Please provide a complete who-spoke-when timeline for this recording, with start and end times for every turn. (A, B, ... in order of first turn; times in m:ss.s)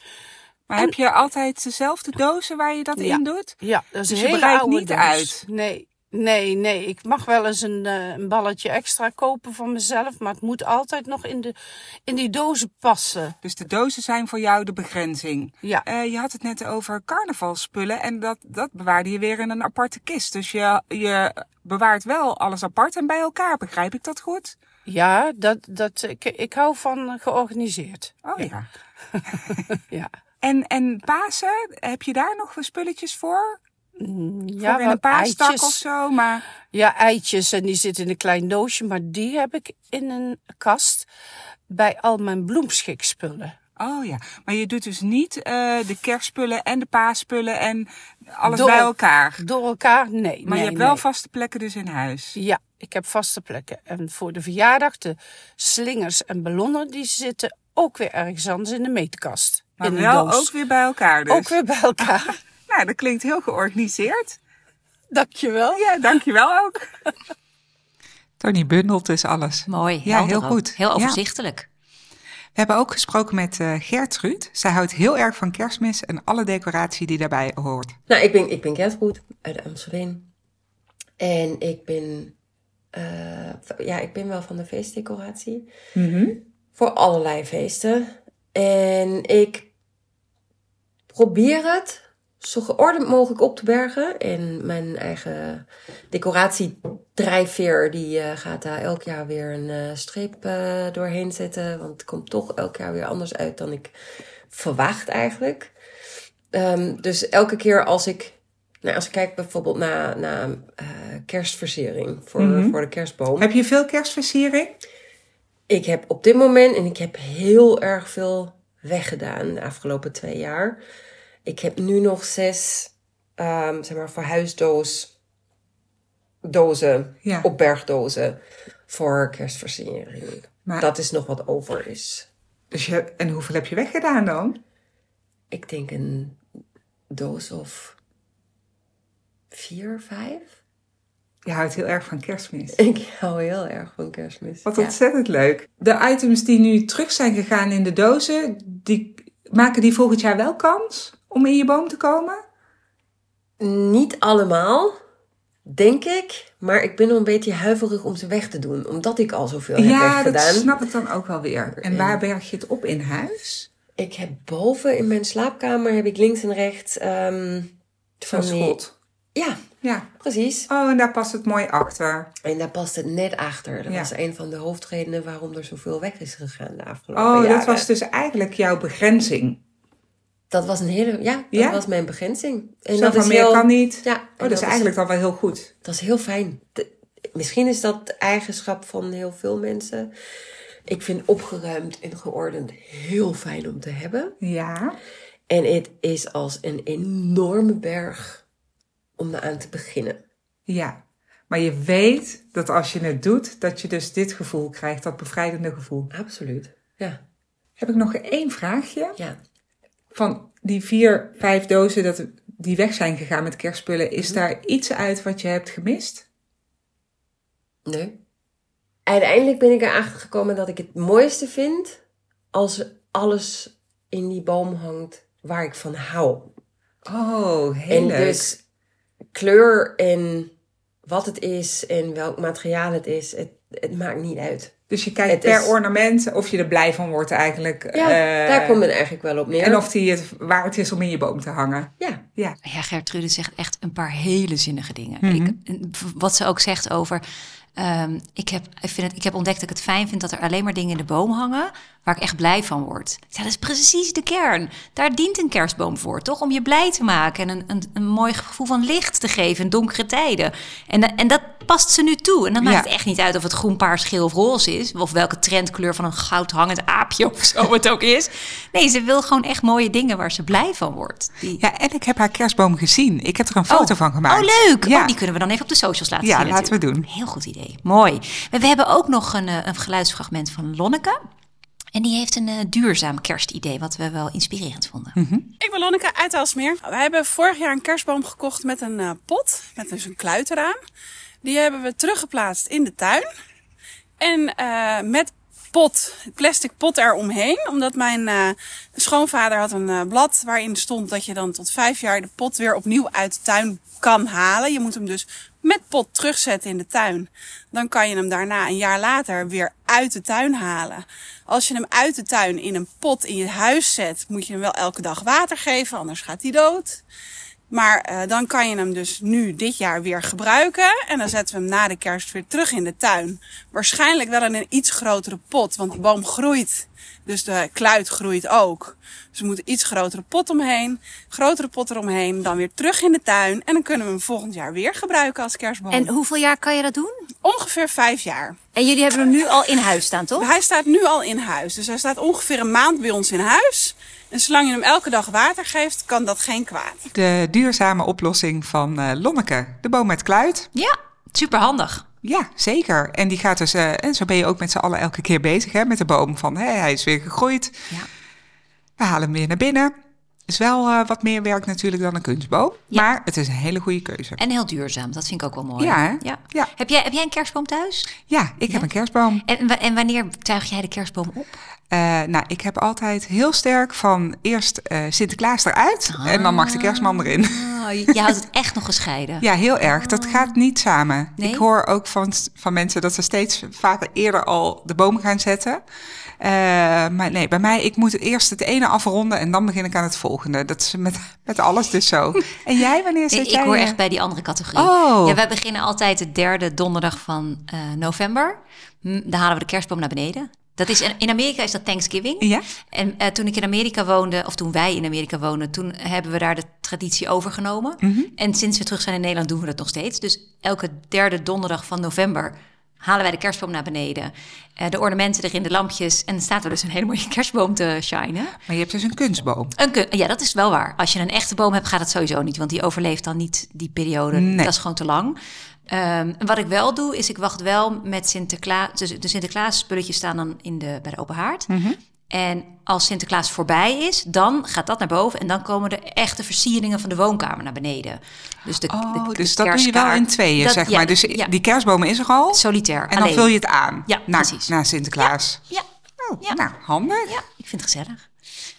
0:00.7-0:05.4 A
0:03.0-0:11.5 B
0:12.1-0:13.3 B
0:13.4-0:24.6 A
0:24.9-0:28.4 B
0:28.2-0:28.7 A
0:29.1-0:30.1 B
0:30.4-0:33.6 A
0:34.0-0:35.8 B
0:34.6-0:36.4 A
0:36.7-0:41.1 B
0:41.7-0:43.6 B
0:43.8-0:49.4 A
0:48.5-0:51.0 B
0:50.4-0:52.4 A
0:52.4-1:00.5 B
0:59.8-1:02.2 A
1:01.3-1:02.4 B
1:02.7-1:04.4 A
1:05.1-1:05.9 B
1:05.7-1:06.9 A
1:08.4-1:11.2 A
1:09.7-1:11.7 C
1:12.6-1:18.0 A
1:18.1-1:20.2 D
1:21.2-1:22.3 D
1:22.9-1:25.7 D
1:26.0-1:26.4 A
1:26.8-1:29.7 D
1:31.1-1:43.9 D
1:44.5-1:45.7 D
1:46.5-1:53.5 D
1:52.4-1:52.8 A
1:53.4-1:54.8 A
1:55.7-2:00.8 D
2:01.4-2:05.1 D
2:06.4-2:12.3 D
2:12.7-2:14.6 A
2:15.5-2:16.4 D
2:17.1-2:18.0 D
2:19.5-2:20.5 D
2:21.4-2:22.8 A
2:22.8-2:24.9 D
2:24.7-2:32.4 A
2:33.6-2:35.0 D
2:35.7-2:40.9 D
2:39.8-2:43.7 A
2:41.8-2:42.2 D
2:44.0-2:48.8 D
2:48.3-2:48.9 A
2:49.4-2:49.7 D
2:49.8-2:50.1 A
2:50.2-2:50.7 D
2:50.7-2:52.3 A
2:52.4-2:57.9 D
2:57.1-2:59.6 A
3:00.5-3:04.9 D
3:01.5-3:01.8 A
3:02.9-3:05.7 A
3:05.8-3:10.1 D
3:10.9-3:14.4 D
3:14.4-3:15.0 A
3:15.5-3:18.4 D
3:19.2-3:20.2 D
3:20.7-3:26.1 A
3:26.1-3:27.2 D
3:27.8-3:29.2 A
3:30.1-3:36.2 A
3:37.9-3:38.2 D
3:39.1-3:42.0 D
3:42.5-3:46.5 D
3:47.1-3:48.5 A
3:47.9-3:48.6 D
3:49.3-3:50.5 D
3:51.1-3:54.8 D
3:54.9-3:58.8 A
3:55.3-3:55.7 D
3:57.9-3:59.9 D
3:59.6-4:02.6 A
4:02.6-4:07.2 C
4:05.2-4:05.6 A
4:07.8-4:31.6 C
4:22.6-4:22.9 A
4:31.6-4:35.1 A
4:33.7-4:41.2 C
4:36.2-4:37.1 A
4:41.9-4:45.2 C
4:45.1-4:45.5 A
4:45.6-4:50.8 E
4:51.4-4:53.2 E
4:54.2-5:17.0 E
5:17.7-5:36.1 E
5:35.9-5:37.3 C
5:37.4-5:38.6 E
5:38.8-5:40.5 C
5:40.4-5:47.1 E
5:47.1-5:50.7 A
5:50.8-5:52.0 C
5:52.2-5:57.9 A
5:59.0-5:59.9 A
6:00.5-6:04.4 A
6:04.4-6:08.1 C
6:05.8-6:06.7 A
6:08.3-6:09.4 A
6:09.4-6:11.5 C
6:11.9-6:17.7 A
6:16.1-6:20.5 C
6:19.4-6:25.8 A
6:21.4-6:21.6 C
6:26.4-6:34.0 A
6:33.3-6:58.6 C
6:34.8-6:35.4 A
6:42.4-6:42.7 A
6:48.0-6:48.3 A
6:58.7-6:59.7 A
6:59.8-7:05.4 C
7:04.3-7:04.7 A
7:05.9-7:11.7 C
7:11.7-7:12.0 A
7:12.3-7:21.5 C
7:18.9-7:25.7 A
7:22.5-7:23.5 C
7:24.1-7:25.8 C
7:26.2-7:27.4 A
7:27.2-7:28.3 C